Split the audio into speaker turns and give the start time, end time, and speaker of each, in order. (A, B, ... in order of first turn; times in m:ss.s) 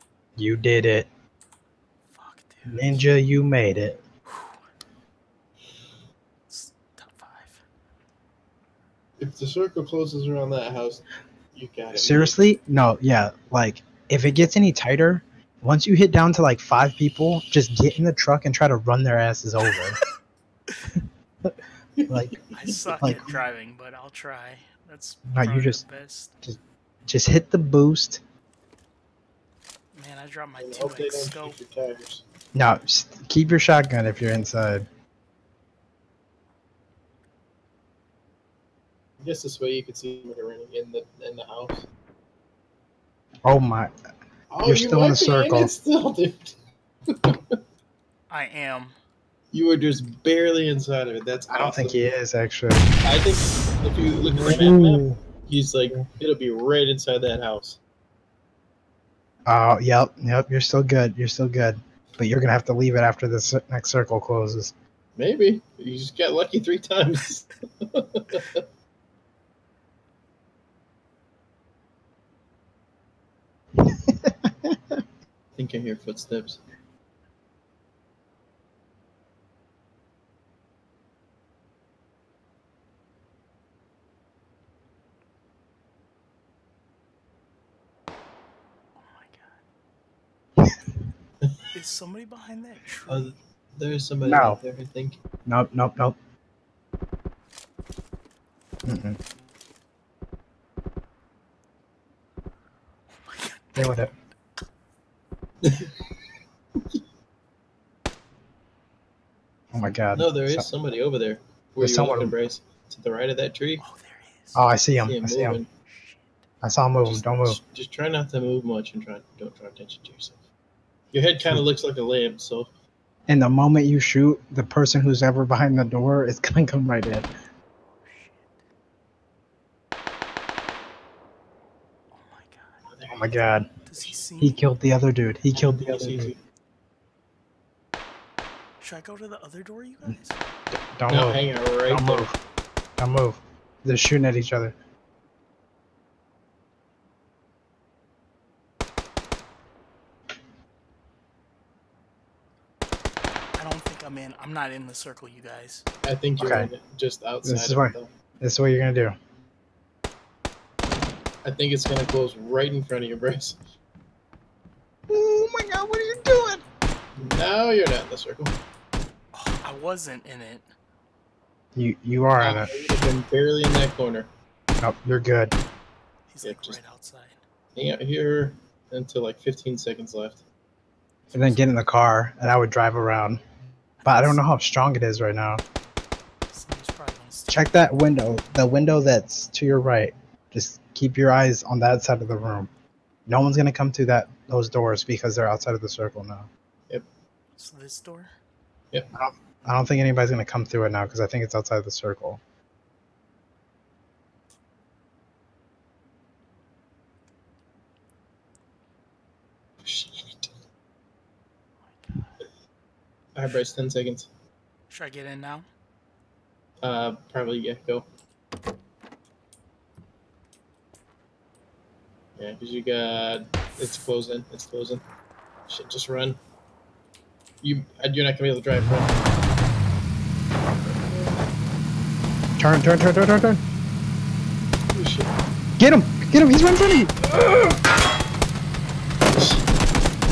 0:00.4-0:01.1 A
0:02.1-0:03.0 B
0:02.6-0:04.0 A
0:04.2-0:04.7 B
0:06.5-0:07.6 B
0:09.2-0:12.4 C
0:11.9-0:20.0 A
0:22.0-0:22.3 C
0:22.1-0:22.4 A
0:22.5-0:26.3 B
0:23.0-0:23.3 A
0:25.3-0:25.8 A
0:26.4-0:28.2 A
0:29.9-0:31.6 B
0:30.6-0:32.2 C
0:32.5-0:34.9 A
0:39.2-0:41.8 C
0:43.4-0:44.0 A
0:44.5-0:47.6 C
0:44.6-0:45.7 A
0:48.3-0:48.9 B
0:49.5-0:52.1 C
0:51.5-0:52.9 A
0:53.0-0:57.8 C
0:54.4-0:55.2 A
0:59.5-1:04.7 A
1:05.2-1:08.6 C
1:13.8-1:15.0 A
1:15.6-1:16.6 C
1:29.0-1:29.6 B
1:31.7-1:33.3 B
1:33.1-1:35.2 C
1:34.2-1:34.6 A
1:35.4-1:36.2 A
1:38.8-1:39.2 A
1:43.2-1:44.0 B
1:43.8-1:44.1 A
1:45.6-1:46.1 C
1:49.7-1:50.6 A
1:50.1-1:53.8 C
1:51.8-1:52.3 A
1:53.8-1:54.7 B
1:54.5-1:55.6 A
1:55.0-1:55.7 C
1:55.9-1:56.3 B
1:56.6-1:57.6 A
1:57.0-2:00.4 C
2:01.1-2:02.7 C
2:03.3-2:07.3 A
2:08.0-2:08.6 B
2:12.1-2:12.8 B
2:12.9-2:14.4 C
2:13.1-2:13.7 A
2:13.9-2:14.6 B
2:14.4-2:16.3 A
2:15.5-2:16.4 C
2:18.8-2:20.4 B
2:20.9-2:22.4 A
2:21.1-2:22.3 C
2:23.0-2:24.8 A
2:33.6-2:35.8 B
2:36.0-2:38.1 C
2:36.4-2:36.7 A
2:37.4-2:39.2 A
2:41.4-2:43.6 C
2:45.1-2:46.6 A
2:47.2-2:48.6 C
2:49.3-2:50.7 B
2:51.8-2:52.7 A
2:52.4-2:54.3 C
2:54.8-2:55.6 A
2:56.3-2:57.4 B
2:56.4-2:56.8 C
2:57.8-3:00.4 C
3:01.3-3:01.6 B
3:01.3-3:03.4 A
3:04.0-3:04.4 B
3:04.0-3:05.6 A
3:06.5-3:07.7 B
3:07.5-3:12.7 A
3:13.3-3:16.5 A
3:17.6-3:18.3 B
3:19.1-3:22.4 A
3:29.8-3:30.5 C
3:32.0-3:32.3 B
3:33.3-3:34.3 C
3:34.9-3:35.7 B
3:36.8-3:38.0 C
3:42.4-3:45.0 C
3:45.7-3:46.4 C
3:47.6-3:49.2 C
3:50.9-3:51.4 C
3:52.6-3:53.6 A
3:54.9-3:55.3 C
3:55.8-3:57.1 A
3:57.2-3:57.8 C